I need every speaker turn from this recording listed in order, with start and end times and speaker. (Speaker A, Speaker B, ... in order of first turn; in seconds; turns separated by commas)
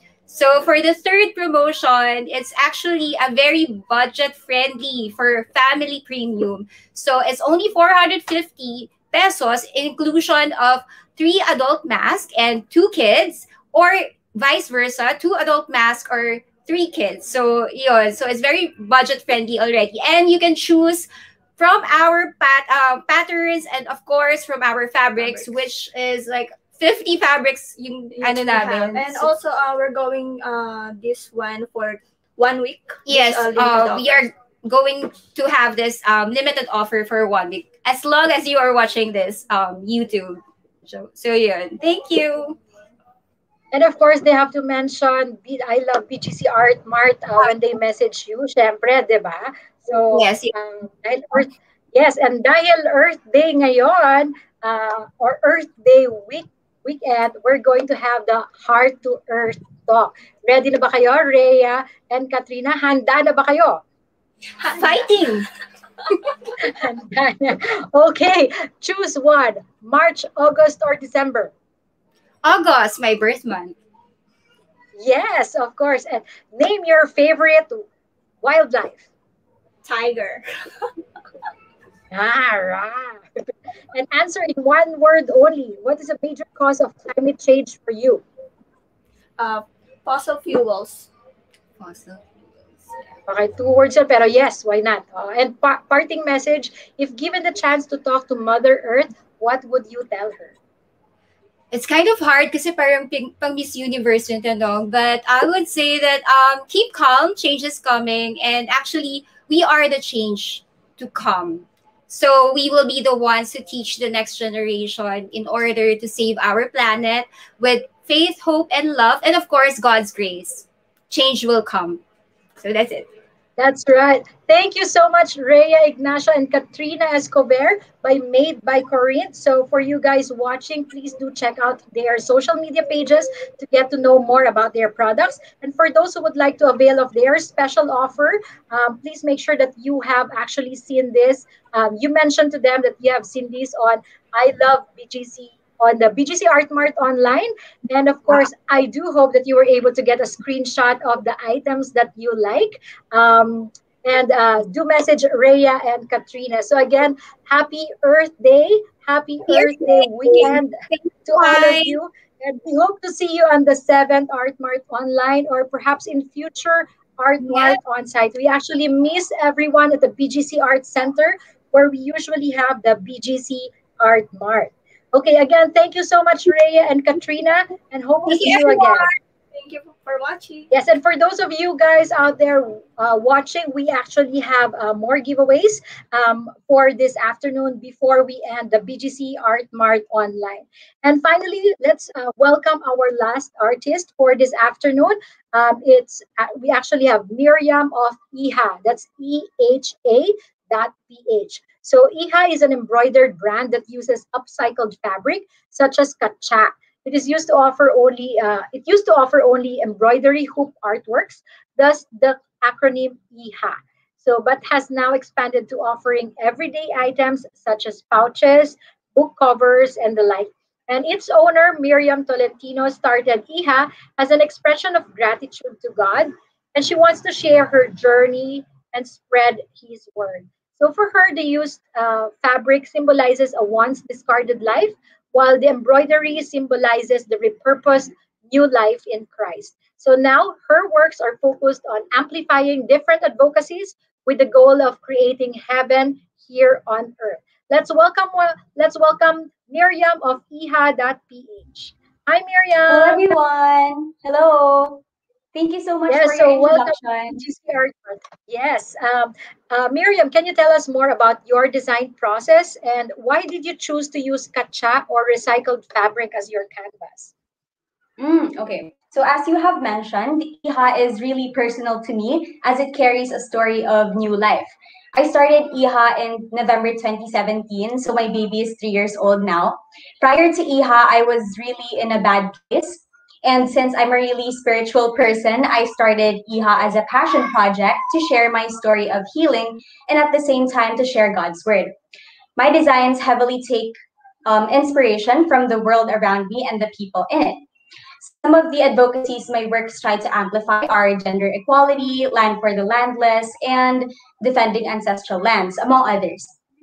Speaker A: 0.3-29.3, Speaker B: 25.2-25.6, Speaker B: 28.2-34.3, Speaker A: 33.1-42.6, Speaker C: 43.7-63.8, Speaker A: 50.1-50.5, Speaker A: 64.7-65.4, Speaker C: 66.6-71.5, Speaker A: 72.4-73.8, Speaker C: 75.0-77.8, Speaker C: 78.4-79.1, Speaker B: 79.8-80.4, Speaker C: 82.1-83.2, Speaker C: 83.9-88.2, Speaker B: 89.4-91.1, Speaker A: 91.8-92.2, Speaker C: 93.3-100.5, Speaker A: 101.7-122.0, Speaker A: 122.6-123.1, Speaker C: 123.6-179.1, Speaker A: 159.5-162.0, Speaker A: 167.4-167.8, Speaker B: 178.3-180.7, Speaker A: 178.4-178.8, Speaker C: 180.7-253.2, Speaker D: 252.9-255.0, Speaker D: 255.5-257.4, Speaker C: 256.1-267.3, Speaker D: 268.2-291.9, Speaker D: 292.6-297.6, Speaker D: 298.2-306.5